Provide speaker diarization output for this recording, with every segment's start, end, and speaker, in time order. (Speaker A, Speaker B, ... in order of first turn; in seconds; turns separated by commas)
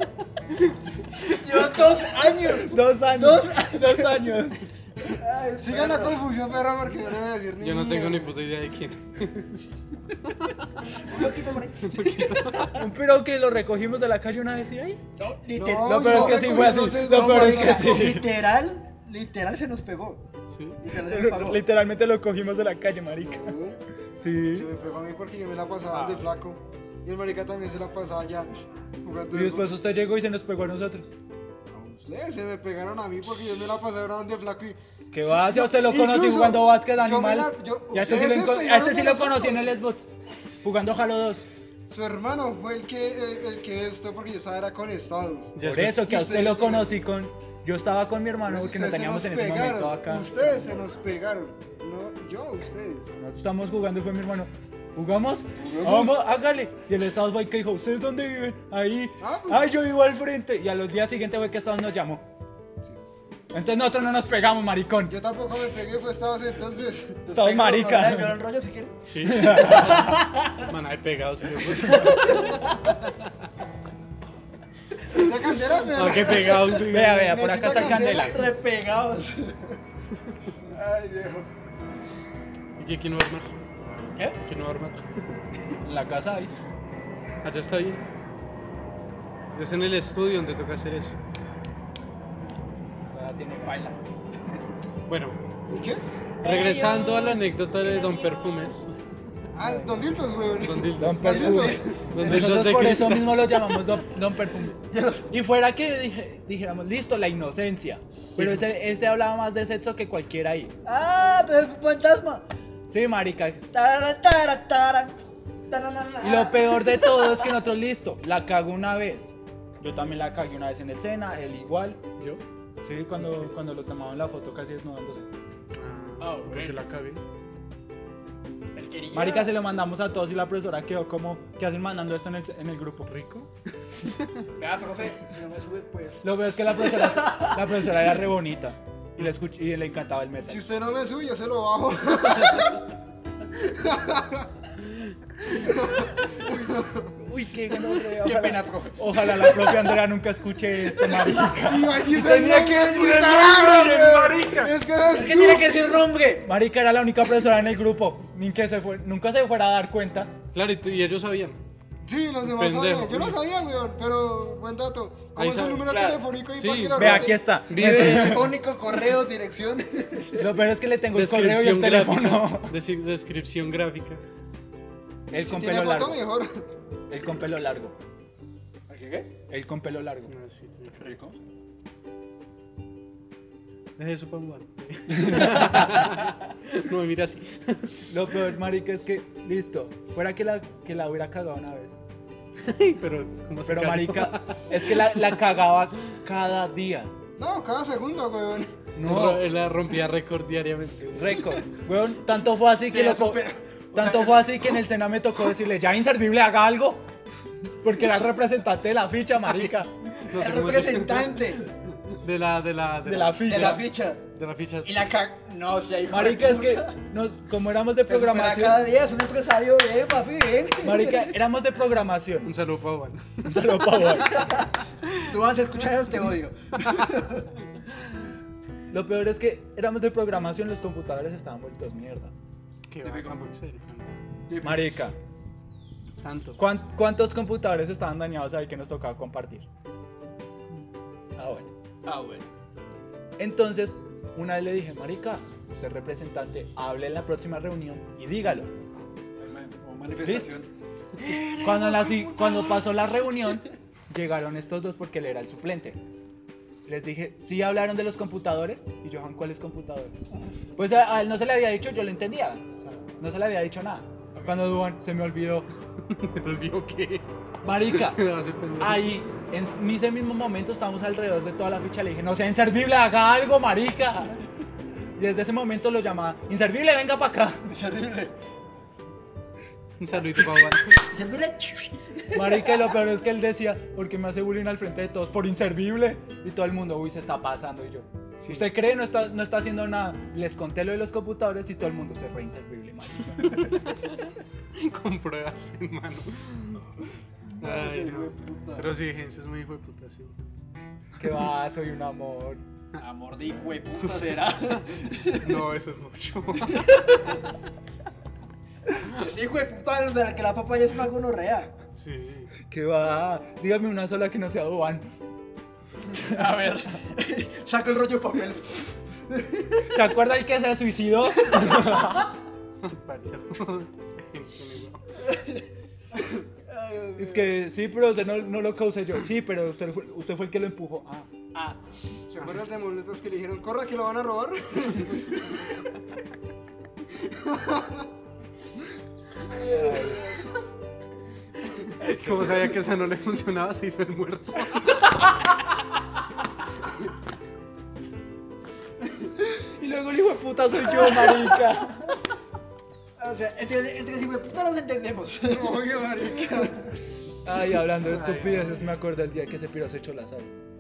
Speaker A: 1.2-4.3, Speaker B: 2.5-4.6, Speaker A: 5.1-6.2, Speaker C: 5.6-8.3, Speaker D: 7.6-9.7, Speaker D: 10.3-10.6, Speaker A: 11.0-12.8, Speaker D: 11.8-12.8, Speaker B: 12.7-15.0, Speaker A: 15.2-20.2, Speaker C: 15.6-18.1, Speaker B: 15.8-18.3, Speaker D: 20.5-20.8, Speaker A: 20.8-21.6, Speaker B: 21.0-23.6, Speaker C: 23.2-23.8, Speaker B: 24.2-24.7, Speaker C: 24.5-28.5, Speaker D: 25.9-26.3, Speaker C: 29.0-29.7, Speaker B: 29.3-31.1, Speaker C: 31.7-39.7, Speaker B: 35.1-40.1, Speaker B: 40.6-41.5, Speaker C: 41.9-46.9, Speaker D: 45.5-46.1, Speaker B: 45.6-50.7, Speaker C: 48.5-53.1, Speaker B: 53.2-62.2, Speaker C: 55.6-56.1, Speaker C: 59.2-59.7, Speaker B: 63.5-65.2, Speaker C: 65.1-67.2, Speaker A: 67.2-69.0, Speaker B: 67.3-68.4, Speaker D: 69.1-72.6, Speaker B: 69.2-70.3, Speaker A: 69.6-70.3, Speaker A: 71.9-72.7, Speaker C: 75.1-78.4, Speaker D: 75.9-77.4, Speaker B: 76.8-78.5, Speaker A: 77.4-79.8, Speaker A: 80.7-81.5, Speaker D: 82.8-83.5, Speaker D: 84.4-85.4, Speaker B: 85.8-86.5, Speaker D: 87.4-88.0, Speaker D: 89.5-91.2, Speaker B: 93.1-93.9, Speaker A: 93.6-94.0, Speaker D: 95.1-95.4, Speaker C: 95.7-96.0, Speaker A: 96.4-98.8, Speaker D: 96.4-99.0, Speaker C: 99.5-101.9, Speaker A: 99.6-99.9, Speaker D: 100.6-103.5, Speaker B: 101.0-110.7, Speaker A: 101.2-102.0, Speaker A: 104.9-105.3, Speaker D: 108.4-108.7, Speaker A: 110.8-112.4, Speaker B: 112.9-113.7, Speaker A: 113.7-115.2, Speaker A: 115.7-117.5, Speaker B: 116.2-122.0, Speaker B: 122.8-125.3, Speaker D: 125.8-127.2, Speaker A: 126.2-126.8, Speaker A: 128.8-129.5, Speaker B: 129.1-133.1, Speaker D: 133.1-134.4, Speaker A: 134.6-138.1, Speaker B: 136.2-140.6, Speaker C: 140.4-142.8, Speaker C: 143.6-144.5, Speaker C: 145.5-147.1, Speaker B: 147.2-154.8, Speaker A: 148.1-150.0, Speaker A: 151.0-151.3, Speaker C: 151.5-155.8, Speaker A: 155.1-156.5, Speaker B: 156.4-160.4, Speaker D: 160.5-161.6, Speaker C: 162.0-167.4, Speaker D: 162.4-163.4, Speaker D: 165.3-166.0, Speaker A: 165.9-166.2, Speaker D: 166.5-168.4, Speaker B: 166.9-168.6, Speaker A: 167.7-170.4, Speaker B: 170.3-172.7, Speaker D: 171.1-174.2, Speaker B: 175.3-176.2, Speaker C: 175.4-176.6, Speaker B: 177.1-178.0, Speaker A: 178.9-179.3, Speaker B: 179.5-180.3, Speaker D: 180.3-181.1, Speaker A: 181.0-181.3, Speaker D: 184.0-188.1, Speaker B: 188.1-192.0, Speaker D: 192.6-195.2, Speaker B: 193.7-197.1, Speaker C: 197.4-198.8, Speaker B: 198.9-199.5, Speaker D: 199.0-201.4, Speaker B: 201.1-207.0, Speaker A: 202.8-204.7, Speaker B: 207.8-209.9, Speaker D: 210.2-215.0, Speaker A: 210.3-211.6, Speaker B: 213.1-213.9, Speaker A: 213.4-214.2, Speaker A: 214.8-216.9, Speaker B: 216.1-218.9, Speaker A: 218.1-221.3, Speaker B: 220.8-222.6, Speaker D: 222.4-223.8, Speaker B: 223.4-224.6, Speaker A: 224.3-227.5, Speaker B: 228.9-232.3, Speaker D: 232.9-234.2, Speaker A: 233.0-233.4, Speaker A: 234.5-234.9, Speaker B: 234.6-235.2, Speaker D: 236.2-236.6, Speaker B: 236.6-239.7, Speaker B: 241.4-241.7, Speaker A: 242.1-242.5, Speaker B: 243.4-248.7, Speaker A: 249.4-252.9, Speaker B: 250.2-250.6, Speaker B: 251.6-256.0, Speaker B: 256.9-260.1, Speaker B: 260.8-265.7, Speaker D: 266.0-267.3, Speaker B: 267.6-268.2, Speaker D: 267.8-269.1, Speaker B: 268.8-274.4, Speaker B: 275.2-277.6, Speaker A: 277.7-278.3, Speaker D: 280.0-281.0, Speaker A: 280.7-282.6, Speaker B: 282.3-293.8, Speaker D: 288.4-288.7, Speaker D: 293.7-294.2, Speaker D: 294.8-296.9, Speaker A: 297.6-298.9, Speaker D: 297.6-300.4, Speaker B: 301.2-302.6, Speaker A: 303.0-305.6, Speaker D: 305.4-307.0, Speaker A: 306.7-307.4, Speaker A: 308.9-311.7, Speaker D: 311.9-312.5, Speaker B: 312.7-315.1, Speaker A: 316.1-320.0, Speaker B: 316.2-316.6, Speaker B: 319.9-322.3, Speaker A: 321.5-321.8, Speaker D: 322.8-325.2, Speaker A: 325.2-325.6, Speaker A: 326.1-327.5, Speaker B: 327.2-331.3, Speaker C: 332.3-335.6, Speaker C: 337.2-338.0, Speaker A: 339.6-340.4, Speaker B: 339.6-340.3, Speaker D: 341.9-345.0, Speaker B: 349.7-352.1, Speaker A: 350.9-351.7, Speaker A: 353.2-356.8, Speaker C: 355.5-356.9, Speaker B: 357.4-360.5, Speaker D: 358.1-358.9